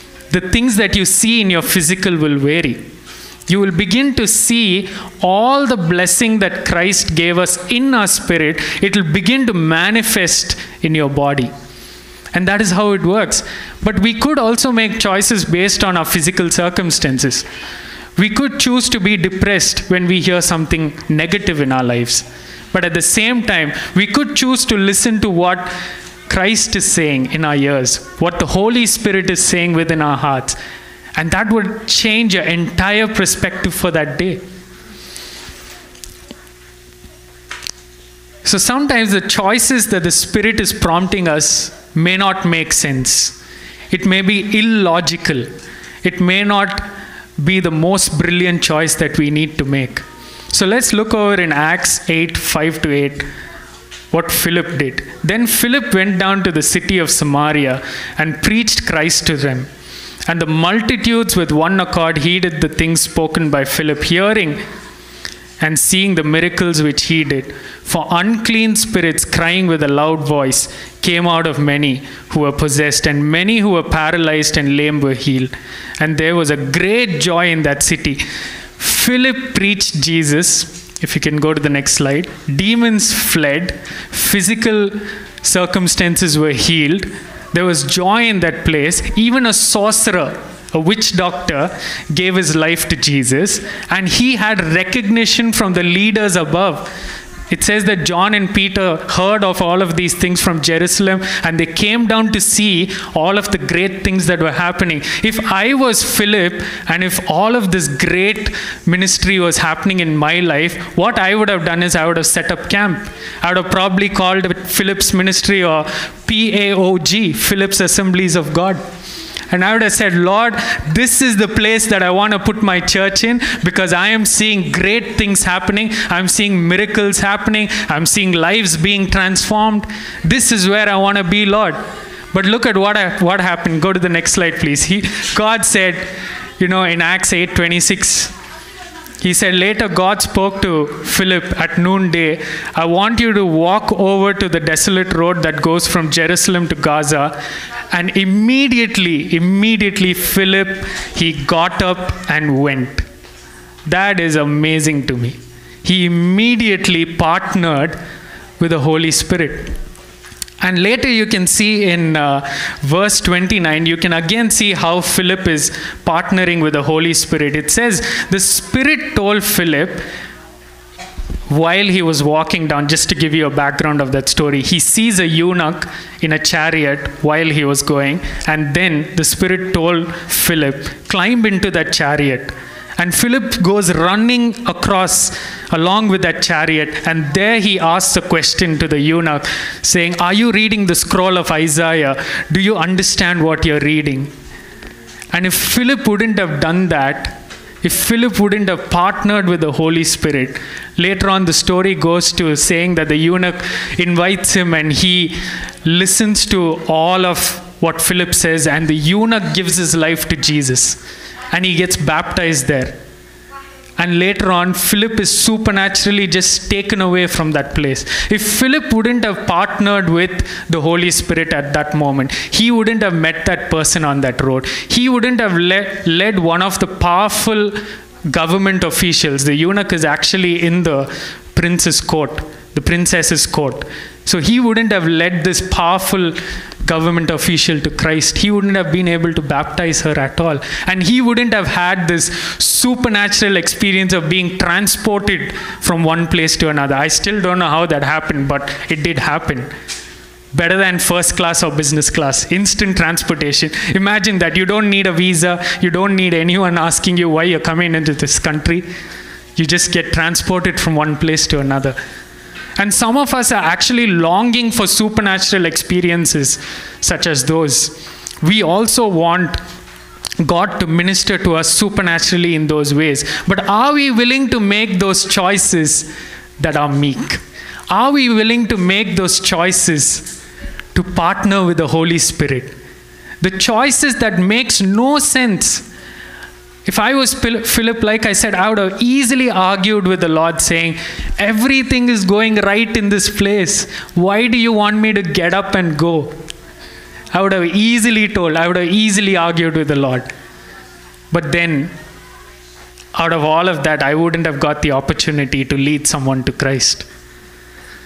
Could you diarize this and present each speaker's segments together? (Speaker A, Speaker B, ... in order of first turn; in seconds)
Speaker A: 0.3-2.8, 3.5-11.5, 12.3-17.5, 18.2-25.7, 26.3-30.6, 31.2-34.4, 38.5-43.4, 43.9-45.5, 46.0-46.9, 47.4-53.3, 54.1-59.7, 60.3-64.6, 65.6-78.2, 78.8-96.9, 97.5-118.8, 119.5-138.3, 139.2-147.4, 147.9-153.1, 153.8-158.0, 158.6-159.8, 160.6-170.0, 171.5-194.3, 195.3-211.0, 211.5-213.0, 214.0-249.7, 250.5-258.9, 259.6-262.0, 262.8-269.6, 270.4-276.1, 276.6-280.3, 280.9-282.8, 283.4-285.8, 286.9-296.4, 297.3-300.3, 301.3-301.9, 303.1-307.1